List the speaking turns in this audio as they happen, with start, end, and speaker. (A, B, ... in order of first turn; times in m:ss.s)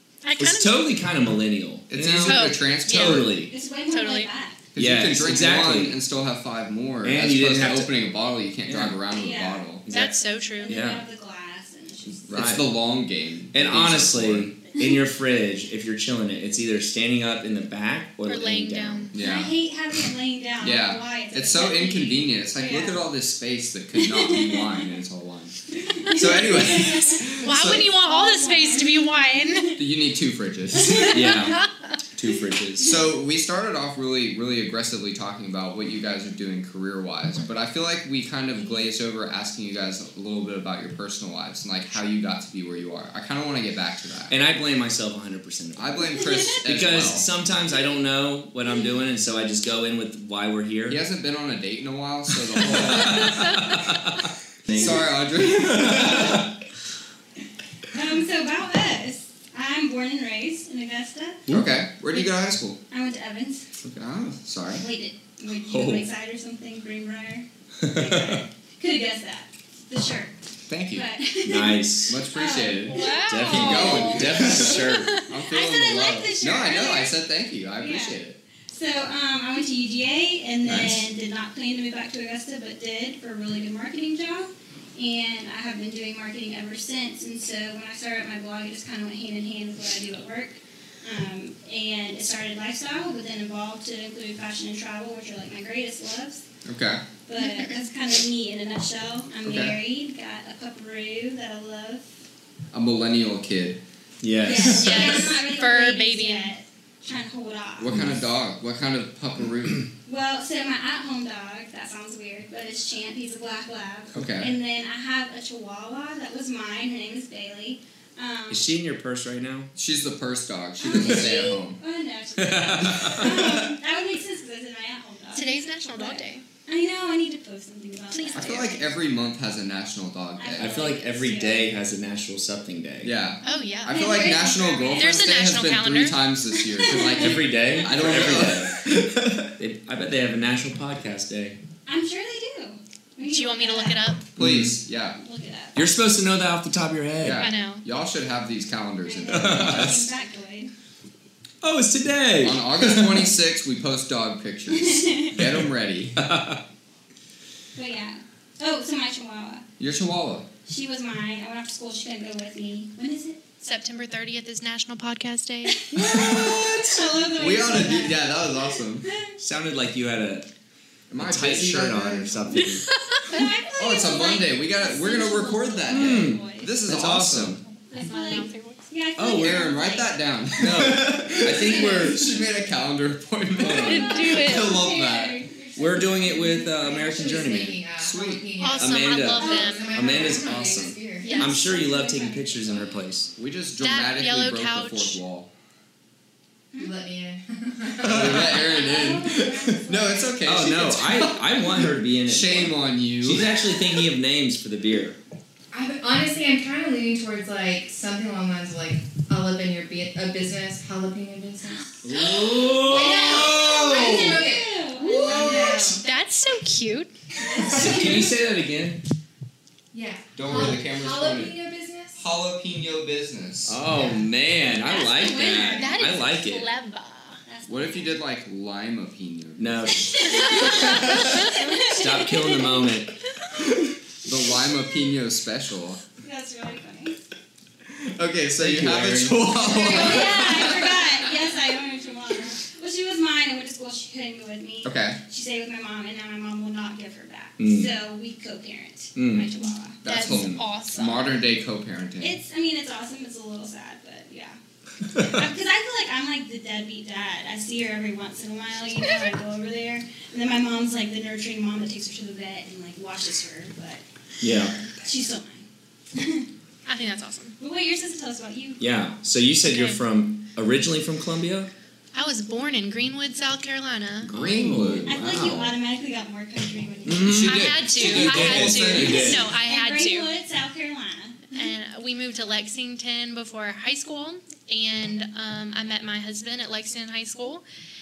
0:00.2-0:00.8 A
0:00.4-0:03.5 B
0:01.9-0:03.4 C
0:02.2-0:03.3 A
0:03.5-0:04.7 D
0:03.9-0:04.3 A
0:04.8-0:09.8 C
0:04.8-0:06.0 B
0:07.0-0:07.9 B
0:08.7-0:09.0 B
0:09.1-0:09.7 D
0:09.9-0:10.2 B
0:09.9-0:10.8 A
0:10.6-0:12.3 D
0:10.7-0:11.0 B
0:12.3-0:14.6 C
0:12.3-0:12.7 B
0:13.5-0:19.1 B
0:18.3-0:19.1 A
0:19.1-0:19.6 C
0:19.2-0:23.0 D
0:20.6-0:27.9 C
0:24.0-0:25.0 D
0:25.9-0:29.8 D
0:27.4-0:29.8 A
0:29.8-0:31.5 C
0:31.0-0:31.4 D
0:31.1-0:33.0 B
0:32.8-0:44.4 C
0:44.3-0:46.1 B
0:45.8-0:47.3 C
0:46.6-0:51.0 B
0:50.9-0:53.9 C
0:52.6-0:55.0 B
0:53.1-0:53.8 A
0:54.7-0:56.5 C
0:55.7-0:56.4 B
0:57.9-1:01.5 D
1:01.5-1:02.8 C
1:02.9-1:03.7 D
1:03.9-1:04.8 C
1:04.8-1:10.3 D
1:05.7-1:06.1 B
1:07.8-1:08.4 B
1:10.7-1:11.1 C
1:10.9-1:14.6 D
1:11.4-1:12.2 B
1:12.1-1:18.4 C
1:12.8-1:15.3 A
1:13.3-1:15.1 B
1:15.5-1:17.2 D
1:17.8-1:18.2 D
1:18.7-1:36.4 D
1:20.7-1:21.0 C
1:36.7-1:37.0 C
1:37.3-1:42.1 D
1:37.4-1:37.7 A
1:39.4-1:39.8 C
1:42.7-1:43.8 C
1:44.2-1:45.3 B
1:44.4-1:47.9 D
1:44.6-1:46.5 A
1:47.8-1:49.9 C
1:47.9-1:48.2 B
1:50.1-1:58.7 D
1:54.1-1:54.5 C
1:58.5-1:59.7 B
1:59.8-2:01.8 C
2:00.8-2:08.8 D
2:02.4-2:03.6 B
2:05.4-2:06.4 A
2:08.1-2:08.8 A
2:08.4-2:10.8 C
2:10.4-2:11.7 D
2:10.6-2:13.2 B
2:13.0-2:18.9 C
2:13.4-2:14.1 A
2:13.8-2:15.3 D
2:15.0-2:16.2 A
2:16.5-2:18.2 D
2:17.1-2:21.6 B
2:21.9-2:24.0 D
2:23.2-2:24.3 A
2:24.4-2:25.2 C
2:24.4-2:24.8 B
2:25.2-2:25.9 D
2:25.8-2:27.5 B
2:27.2-2:30.1 C
2:27.4-2:27.9 A
2:29.0-2:30.7 D
2:29.3-2:30.1 B
2:31.6-2:33.4 B
2:32.4-2:36.2 C
2:34.7-2:35.4 D
2:36.2-2:36.6 B
2:37.8-2:39.6 D
2:39.8-2:40.5 C
2:40.7-2:43.4 D
2:43.6-2:45.8 A
2:45.8-2:49.4 D
2:45.9-2:47.3 B
2:47.4-2:49.1 C
2:49.4-2:50.5 B
2:51.1-2:52.7 C
2:51.2-2:52.9 B
2:53.2-2:56.8 D
2:53.8-2:57.6 C
2:55.9-2:57.6 B
2:57.9-3:00.1 D
2:57.9-2:58.9 A
2:59.2-2:59.7 B
2:59.3-3:05.4 C
3:00.6-3:02.4 B
3:01.5-3:02.2 D
3:03.6-3:04.1 B
3:03.7-3:06.6 D
3:03.8-3:04.8 A
3:05.8-3:07.8 B
3:06.4-3:11.4 E
3:08.0-3:08.4 C
3:08.6-3:09.9 A
3:08.8-3:13.3 B
3:09.4-3:10.6 D
3:11.2-3:11.6 A
3:11.2-3:13.0 D
3:13.4-3:15.5 C
3:13.8-3:15.2 A
3:16.8-3:18.8 E
3:18.0-3:18.6 B
3:18.0-3:23.5 C
3:18.4-3:20.6 D
3:20.4-3:25.2 B
3:25.7-3:31.9 E
3:32.0-3:34.5 B
3:32.0-3:36.0 D
3:32.8-3:36.0 E
3:35.0-3:37.1 A
3:37.4-3:38.3 D
3:37.4-3:38.1 E
3:37.6-3:39.0 B
3:39.9-3:42.2 E
3:40.4-3:41.6 C
3:42.2-3:43.9 C
3:43.7-3:46.7 B
3:43.9-3:44.3 E
3:44.7-3:46.2 D
3:45.7-3:47.4 A
3:47.5-3:48.2 D
3:47.7-3:50.1 C
3:49.6-3:53.2 B
3:50.1-3:52.8 D
3:50.2-3:51.5 A
3:54.2-3:56.0 C
3:56.2-3:57.2 D
3:58.0-4:01.1 C
3:58.6-4:00.5 B
3:59.6-4:10.0 D
4:04.8-4:05.2 C
4:07.6-4:07.9 B
4:09.2-4:09.5 B
4:10.0-4:12.4 C
4:10.0-4:11.4 A
4:10.2-4:10.6 B
4:12.2-4:14.6 D
4:15.1-4:15.4 B
4:15.2-4:26.5 D
4:24.4-4:24.8 B
4:26.9-4:27.6 A
4:27.6-4:28.8 D
4:28.8-4:31.7 B
4:29.6-4:30.0 A
4:32.1-4:34.3 A
4:34.3-4:35.5 B
4:34.3-4:35.8 C
4:35.1-4:37.6 D
4:37.1-4:39.5 B
4:37.2-4:39.5 C
4:37.3-4:40.3 A
4:38.9-4:41.5 D
4:41.5-4:47.6 A